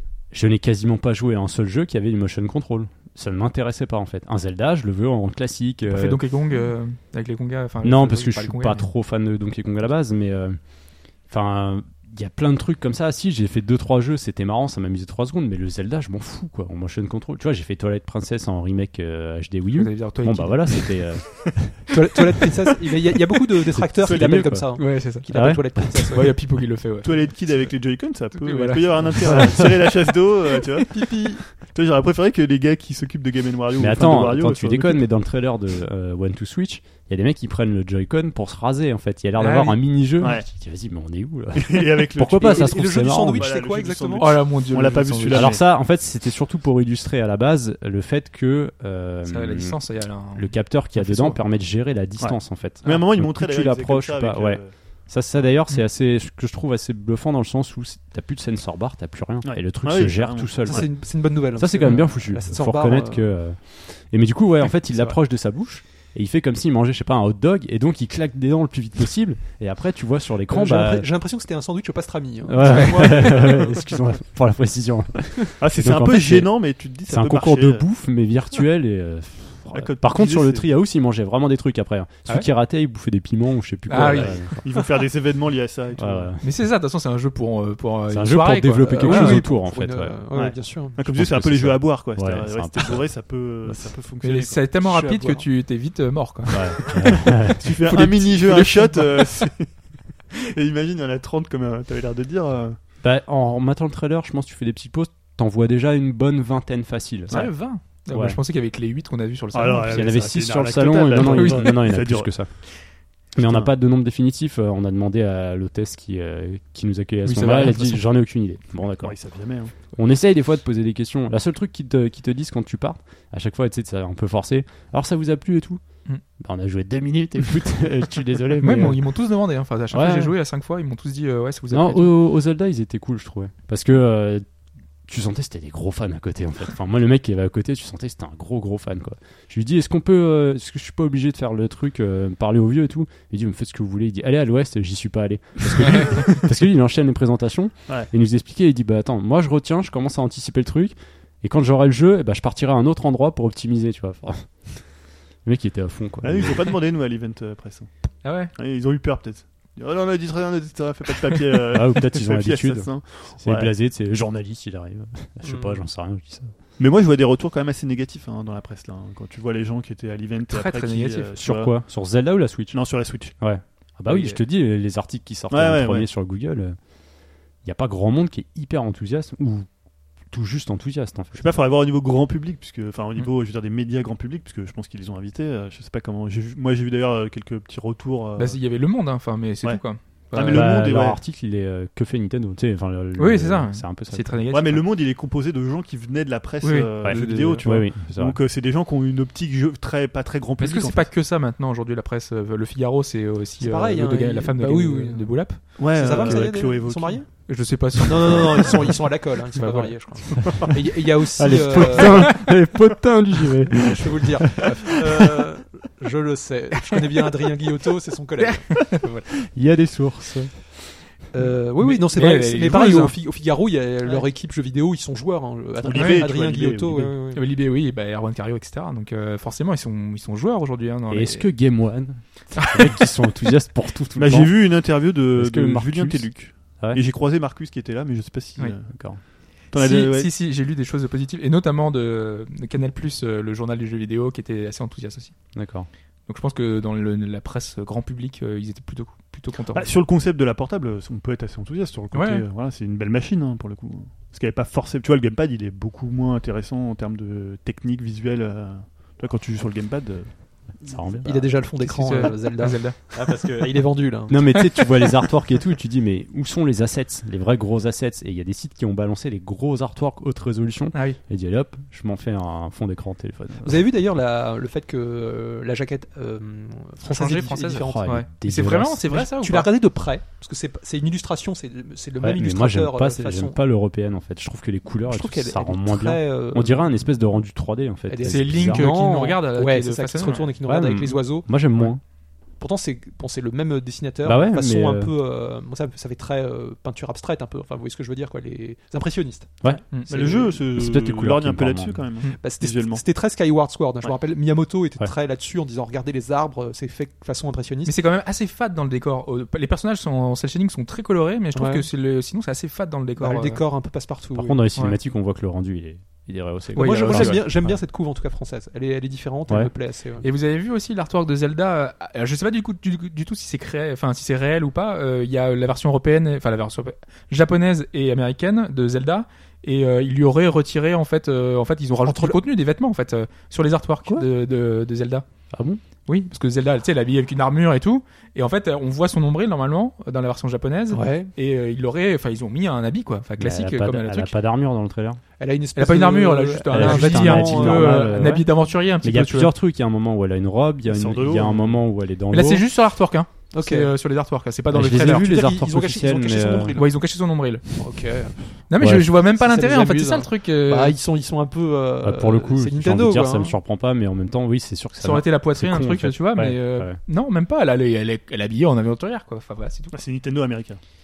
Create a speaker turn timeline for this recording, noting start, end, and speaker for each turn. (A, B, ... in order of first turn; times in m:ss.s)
0:00.3-0:06.2 A
0:05.8-0:08.9 B
0:07.8-0:10.6 A
0:11.2-0:21.9 A
0:19.7-0:21.5 B
0:21.9-0:26.3 C
0:23.7-0:26.1 A
0:24.8-0:25.2 B
0:26.1-0:27.1 B
0:27.0-0:35.0 D
0:28.3-0:29.6 B
0:30.9-0:31.4 C
0:33.8-0:43.5 A
0:39.4-0:39.8 B
0:40.2-0:40.4 D
0:41.5-0:45.6 D
0:42.4-0:44.3 C
0:44.2-0:45.6 B
0:45.3-0:49.8 A
0:49.3-0:51.4 B
0:50.3-1:11.1 A
0:52.2-0:54.7 D
0:59.4-1:00.8 D
1:00.6-1:03.3 C
1:04.9-1:05.2 C
1:10.5-1:13.8 C
1:12.4-1:24.6 A
1:15.6-1:17.8 D
1:19.7-1:20.7 D
1:23.9-1:24.4 B
1:23.9-1:26.3 D
1:26.0-1:26.5 A
1:26.4-1:29.4 B
1:28.1-1:30.2 A
1:28.8-1:31.0 C
1:30.3-1:34.6 D
1:31.0-1:33.1 A
1:34.2-1:39.4 B
1:34.8-1:35.5 C
1:36.5-1:37.7 A
1:37.6-1:42.8 D
1:43.0-1:47.4 A
1:47.3-1:50.1 B
1:48.1-1:48.4 A
1:49.5-1:52.3 D
1:49.8-1:59.2 A
1:51.2-1:51.9 B
1:53.4-1:53.7 D
1:57.3-1:57.9 D
1:57.5-1:57.8 B
1:59.0-1:59.8 D
1:59.9-2:05.8 A
2:06.4-2:09.0 A
2:08.6-2:12.1 B
2:09.9-2:10.3 A
2:11.7-2:14.4 A
2:15.0-2:34.9 A
2:35.4-2:36.7 A
2:36.2-2:37.9 D
2:38.2-2:38.5 B
2:38.6-2:43.7 D
2:41.7-2:46.5 A
2:45.4-2:45.8 C
2:46.8-2:51.7 D
2:50.5-2:51.3 B
2:51.4-2:52.8 A
2:52.7-2:53.3 D
2:53.3-2:56.8 A
2:54.1-2:54.4 B
2:55.5-2:56.1 D
2:57.6-2:59.7 A
3:00.2-3:01.4 A
3:01.3-3:08.6 D
3:08.4-3:10.7 B
3:10.3-3:11.2 D
3:10.5-3:14.3 A
3:13.2-3:14.8 B
3:14.5-3:21.1 D
3:16.6-3:17.7 B
3:17.0-3:18.4 A
3:20.6-3:26.4 B
3:23.6-3:32.5 C
3:25.8-3:27.2 D
3:27.5-3:29.0 B
3:29.5-3:29.9 B
3:31.4-3:35.4 A
3:32.0-3:32.4 B
3:33.7-3:39.2 C
3:39.4-3:40.7 A
3:41.3-3:47.4 C
3:41.8-3:43.2 B
3:45.8-3:47.1 D
3:45.9-3:46.2 B
3:47.3-3:51.8 B
3:51.1-3:57.0 A
3:52.6-3:52.9 B
3:54.1-3:59.0 D
3:58.9-3:59.2 A
3:59.6-4:05.3 B
3:59.7-4:00.3 D
4:05.5-4:05.9 A
4:06.3-4:09.9 B
4:09.7-4:20.8 D
4:12.1-4:12.4 B
4:20.8-4:24.7 C
4:20.8-4:21.5 A
4:21.8-4:23.0 B
4:23.1-4:33.8 A
4:30.9-4:31.2 B
4:33.6-4:38.2 C
4:37.0-4:39.7 B
4:37.9-4:39.0 A
4:39.1-4:43.6 C
4:42.2-4:48.9 A
4:45.0-4:46.9 C
4:48.1-4:51.9 C
4:48.2-4:50.5 B
4:50.6-4:52.0 A
4:52.6-4:59.6 C
4:54.2-4:55.1 A
4:59.9-5:00.3 B
5:00.1-5:03.0 D
5:00.7-5:02.0 A
5:02.4-5:07.9 C
5:07.8-5:13.6 B
5:11.5-5:11.8 C
5:13.2-5:14.6 C
5:14.3-5:17.7 A
5:16.7-5:17.6 B
5:16.8-5:20.2 C
5:20.2-5:35.2 B
5:32.0-5:32.4 C
5:35.5-5:35.8 A
5:36.0-5:44.3 B
5:40.9-5:41.3 C
5:43.4-5:45.2 A
5:45.4-5:48.1 C
5:45.8-5:49.5 B
5:46.7-5:48.5 A
5:49.0-5:52.6 A
5:50.8-5:51.8 D
5:52.3-5:55.3 B
5:53.5-5:53.9 C
5:54.7-5:56.7 A
5:54.9-5:56.9 C
5:56.7-5:57.8 B
5:57.8-5:58.6 C
5:58.7-6:00.9 B
5:58.8-5:59.1 A
5:59.2-6:03.5 C
6:02.0-6:07.0 A
6:05.0-6:09.9 B
6:09.9-6:10.8 D